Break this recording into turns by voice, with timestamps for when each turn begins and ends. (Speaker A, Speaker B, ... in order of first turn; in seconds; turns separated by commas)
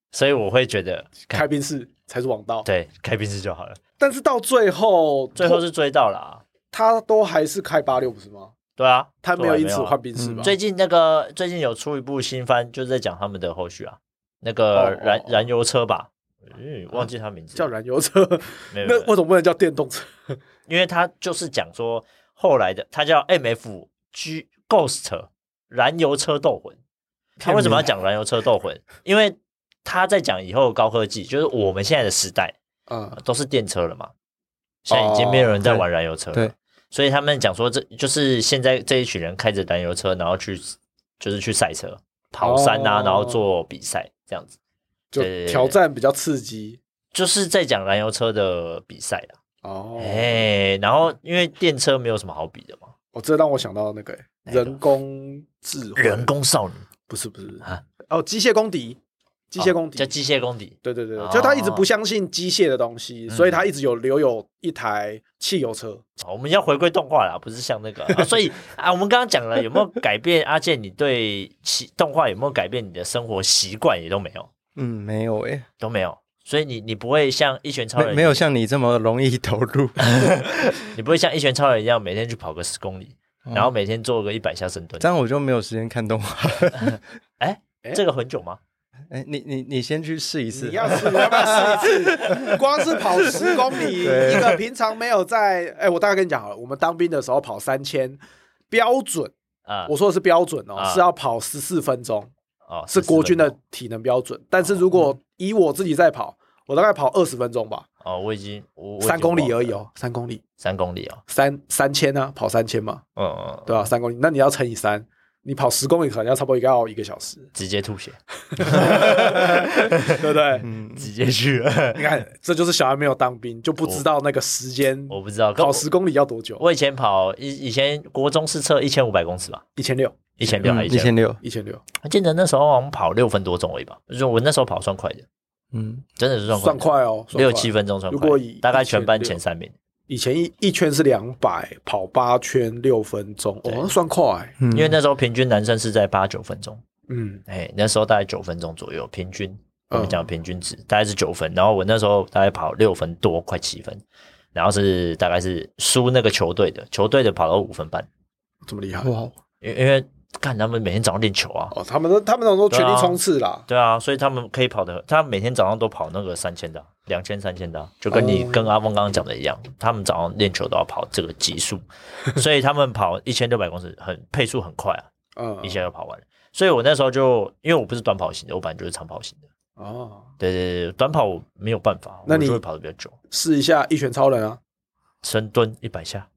Speaker A: 0.1-1.5, Speaker B: 1.3-2.7, Speaker A: 2.6-3.8, Speaker B: 4.0-5.6, Speaker A: 5.4-6.4, Speaker B: 6.7-8.5, Speaker A: 8.8-17.7, Speaker B: 9.2-10.5, Speaker C: 10.2-10.5, Speaker B: 14.7-15.4, Speaker B: 17.6-20.4, Speaker A: 18.7-19.1, Speaker A: 20.7-26.8, Speaker A: 27.4-32.6, Speaker C: 27.4-27.9, Speaker B: 32.9-33.2, Speaker A: 33.2-34.1, Speaker A: 34.9-44.5, Speaker B: 34.9-35.6, Speaker B: 42.4-43.4, Speaker B: 45.1-46.8, Speaker A: 45.2-45.8, Speaker A: 47.1-49.4, Speaker B: 49.6-50.4, Speaker A: 50.0-52.9, Speaker B: 53.1-56.3, Speaker A: 54.5-54.8, Speaker A: 56.0-56.9, Speaker B: 57.1-59.0, Speaker B: 59.5-60.1, Speaker A: 59.6-61.9, Speaker B: 60.8-66.0, Speaker A: 63.3-63.7, Speaker A: 66.2-74.5, Speaker C: 74.8-75.6, Speaker A: 75.8-78.4, Speaker C: 78.0-80.1, Speaker A: 80.0-85.1, Speaker C: 83.5-83.7, Speaker C: 85.0-87.0, Speaker A: 86.8-88.6, Speaker C: 89.1-94.6, Speaker B: 90.5-98.2, Speaker B: 98.7-99.3, Speaker A: 99.7-99.9, Speaker B: 99.9-102.3, Speaker A: 100.8-101.1, Speaker A: 102.7-103.5, Speaker B: 102.9-107.8, Speaker A: 108.0-109.8, Speaker B: 109.0-110.4, Speaker A: 110.6-111.2, Speaker B: 111.3-113.0, Speaker A: 113.2-113.9, Speaker B: 113.7-117.5, Speaker A: 117.5-120.3, Speaker B: 118.5-120.7, Speaker C: 120.6-121.1, Speaker A: 121.0-122.2, Speaker B: 122.0-126.6, Speaker A: 125.1-125.9, Speaker A: 126.6-129.6, Speaker B: 129.8-130.4, Speaker A: 130.4-131.1, Speaker C: 130.6-131.4, Speaker B: 131.4-131.8, Speaker A: 132.0-135.2, Speaker C: 135.7-136.0, Speaker A: 136.2-139.7, Speaker B: 136.5-139.4, Speaker B: 140.1-144.6, Speaker A: 143.6-143.9, Speaker C: 144.6-145.0, Speaker A: 144.7-146.8, Speaker B: 147.1-147.4, Speaker A: 147.5-154.0, Speaker B: 149.9-150.3, Speaker A: 154.5-158.1, Speaker B: 158.7-159.1, Speaker C: 159.0-159.3, Speaker A: 159.6-161.7, Speaker B: 161.7-163.6, Speaker A: 162.7-175.1, Speaker B: 168.1-168.7, Speaker B: 175.4-175.8, Speaker A: 175.6-179.4, Speaker B: 179.8-180.3, Speaker A: 180.4-183.1, Speaker B: 182.3-182.6, Speaker B: 183.3-184.6, Speaker A: 185.2-186.3